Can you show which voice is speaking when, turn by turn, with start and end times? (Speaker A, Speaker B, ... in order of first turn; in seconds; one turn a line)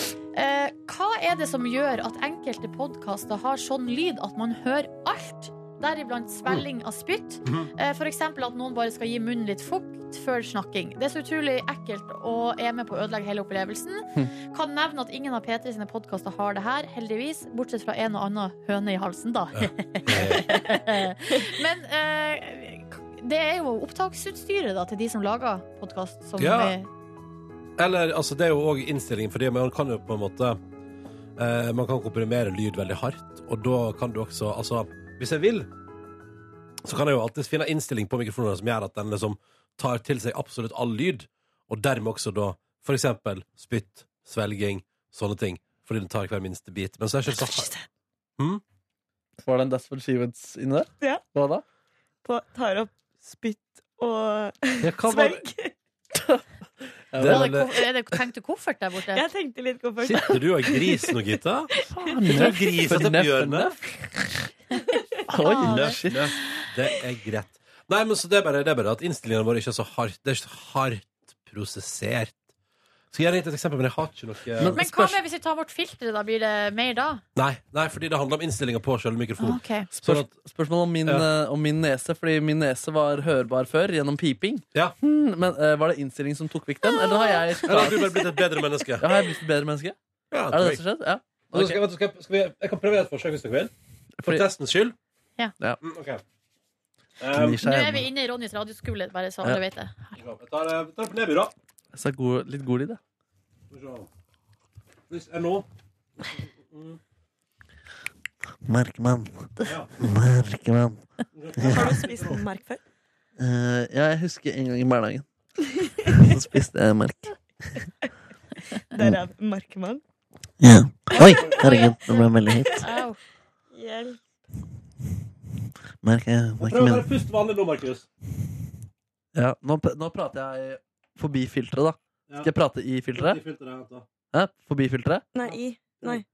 Speaker A: 0.3-26.9
Speaker B: 7.4-7.7
Speaker B: 19.6-20.6
Speaker B: 26.4-26.7
Speaker B: 27.8-30.6
Speaker B: 31.4-35.7
Speaker B: 36.8-47.7
Speaker C: 47.4-47.8
Speaker D: 49.4-51.6
Speaker C: 52.2-55.7
Speaker B: 54.8-55.5
Speaker D: 57.1-57.6
Speaker B: 57.1-57.7
Speaker A: 57.2-59.2
Speaker C: 59.1-61.1
Speaker B: 60.0-61.7
Speaker C: 61.7-62.4
Speaker D: 62.0-63.8
Speaker B: 62.3-63.7
Speaker D: 65.3-66.3
Speaker A: 65.3-66.0
Speaker B: 65.7-72.4
Speaker B: 73.1-74.8
Speaker D: 74.6-75.2
Speaker A: 74.7-77.2
Speaker B: 77.3-80.3
Speaker A: 79.4-79.9
Speaker D: 79.9-88.1
Speaker A: 86.9-87.4
Speaker B: 87.7-89.0
Speaker D: 89.0-90.0
Speaker B: 90.3-90.8
Speaker D: 90.5-91.8
Speaker B: 91.5-93.7
Speaker B: 94.2-95.0
Speaker B: 95.8-96.2
Speaker B: 97.2-97.6
Speaker D: 97.3-98.1
Speaker A: 97.6-100.2
Speaker B: 100.2-101.5
Speaker D: 101.9-103.0
Speaker B: 103.7-104.1
Speaker B: 105.1-105.7
Speaker B: 106.4-107.0
Speaker D: 108.7-109.2
Speaker B: 109.6-109.9
Speaker D: 110.1-110.8
Speaker B: 111.3-112.4
Speaker C: 111.6-112.8
Speaker D: 113.4-115.2
Speaker D: 116.3-117.2
Speaker C: 118.9-120.0
Speaker D: 120.6-122.7
Speaker C: 121.1-122.8
Speaker A: 122.8-123.2
Speaker C: 123.7-124.2
Speaker D: 126.0-126.6
Speaker B: 126.6-128.1
Speaker D: 129.3-133.4
Speaker B: 133.1-134.1
Speaker D: 134.3-135.3
Speaker C: 135.3-136.2
Speaker B: 135.5-136.2